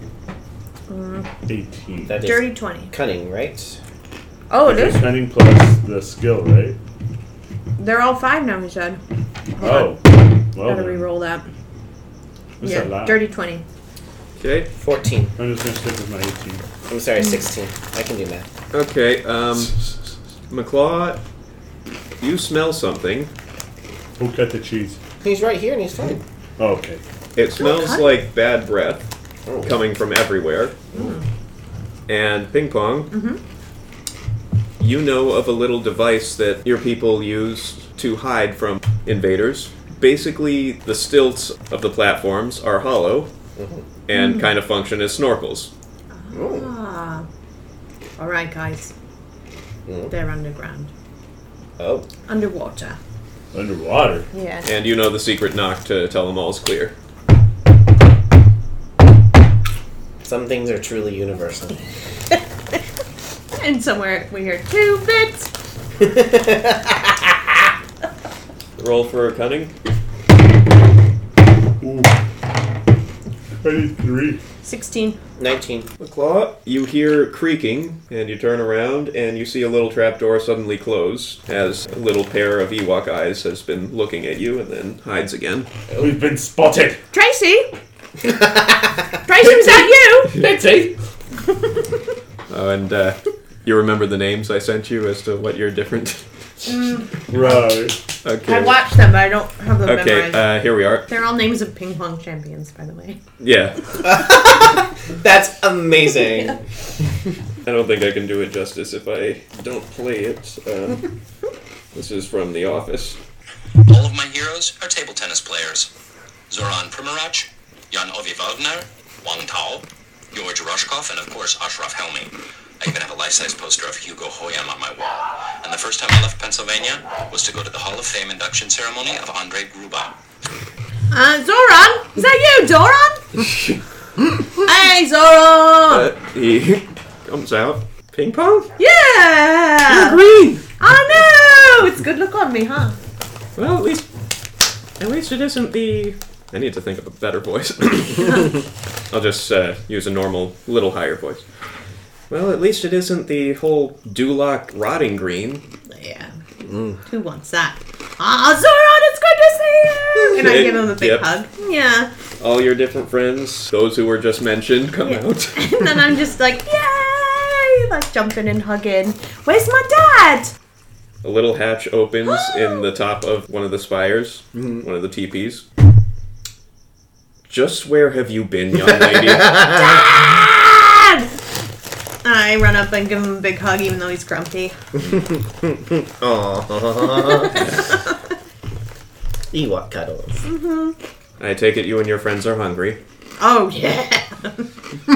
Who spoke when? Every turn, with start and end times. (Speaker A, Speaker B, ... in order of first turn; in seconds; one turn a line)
Speaker A: 0.9-1.3
Speaker B: 1.5-2.2
Speaker C: 2.1-3.8
Speaker A: 2.2-2.9
Speaker A: 4.5-5.1
Speaker B: 4.6-6.8
Speaker A: 7.8-9.0
Speaker A: 9.6-10.0
Speaker B: 9.6-11.1
Speaker A: 10.6-11.5
Speaker B: 12.6-13.2
Speaker A: 12.6-13.6
Speaker D: 14.4-14.7
Speaker C: 14.8-15.3
Speaker B: 15.4-16.7
Speaker C: 16.9-18.5
Speaker A: 17.2-17.5
Speaker D: 18.7-21.2
Speaker D: 22.2-23.3
Speaker B: 24.2-25.0
Speaker C: 25.2-26.2
Speaker B: 26.6-27.0
Speaker D: 27.3-29.1
Speaker A: 27.6-28.2
Speaker C: 29.5-29.8
Speaker D: 29.6-31.1
Speaker C: 30.9-31.2
Speaker D: 32.1-33.1
Speaker A: 33.1-33.4
Speaker D: 34.8-43.3
Speaker C: 43.6-43.9
Speaker D: 44.1-45.7
Speaker A: 44.1-44.5
Speaker A: 46.1-47.3
Speaker C: 46.3-46.7
Speaker A: 48.2-48.9
Speaker C: 49.9-50.1
Speaker A: 50.1-50.9
Speaker C: 51.8-52.1
Speaker A: 52.3-53.0
Speaker B: 53.5-54.3
Speaker A: 54.3-54.7
Speaker D: 54.6-56.9
Speaker C: 60.2-61.9
Speaker A: 63.5-65.5
Speaker C: 66.0-67.3
Speaker D: 68.8-69.7
Speaker B: 71.8-72.2
Speaker B: 73.6-74.4
Speaker A: 74.6-75.2
Speaker C: 75.4-75.9
Speaker D: 76.0-85.7
Speaker B: 86.0-87.0
Speaker A: 87.1-87.7
Speaker A: 89.2-90.4
Speaker B: 90.3-90.9
Speaker A: 91.7-92.0
Speaker D: 92.5-96.2
Speaker A: 96.7-97.1
Speaker B: 97.3-98.0
Speaker D: 98.2-98.8
Speaker A: 98.5-100.4
Speaker D: 99.8-101.1
Speaker A: 101.1-103.2
Speaker D: 103.4-104.2
Speaker C: 104.0-106.6
Speaker D: 107.6-111.1
Speaker D: 111.9-113.2
Speaker E: 113.9-115.9
Speaker E: 116.5-130.2
Speaker A: 131.1-133.2
Speaker D: 133.3-133.8
Speaker A: 134.6-136.1
Speaker D: 135.9-138.7
Speaker A: 138.8-140.2
Speaker D: 139.9-140.6
Speaker A: 140.8-143.0
Speaker D: 143.6-144.1
Speaker D: 145.0-148.6
Speaker D: 149.1-151.4
Speaker D: 152.3-155.6
Speaker A: 155.9-156.4
Speaker C: 156.6-157.0
Speaker A: 157.1-162.1
Speaker D: 160.4-161.3
Speaker D: 162.4-166.2
Speaker A: 165.0-170.5
Speaker D: 171.2-175.6
Speaker A: 172.3-172.9
Speaker D: 177.5-179.6
Speaker C: 178.8-180.1
Speaker A: 179.6-181.3
Speaker A: 182.2-184.7
Speaker C: 185.0-187.8
Speaker A: 187.2-188.0
Speaker C: 189.5-190.4
Speaker A: 190.4-190.9
Speaker D: 191.4-193.0
Speaker A: 193.4-194.7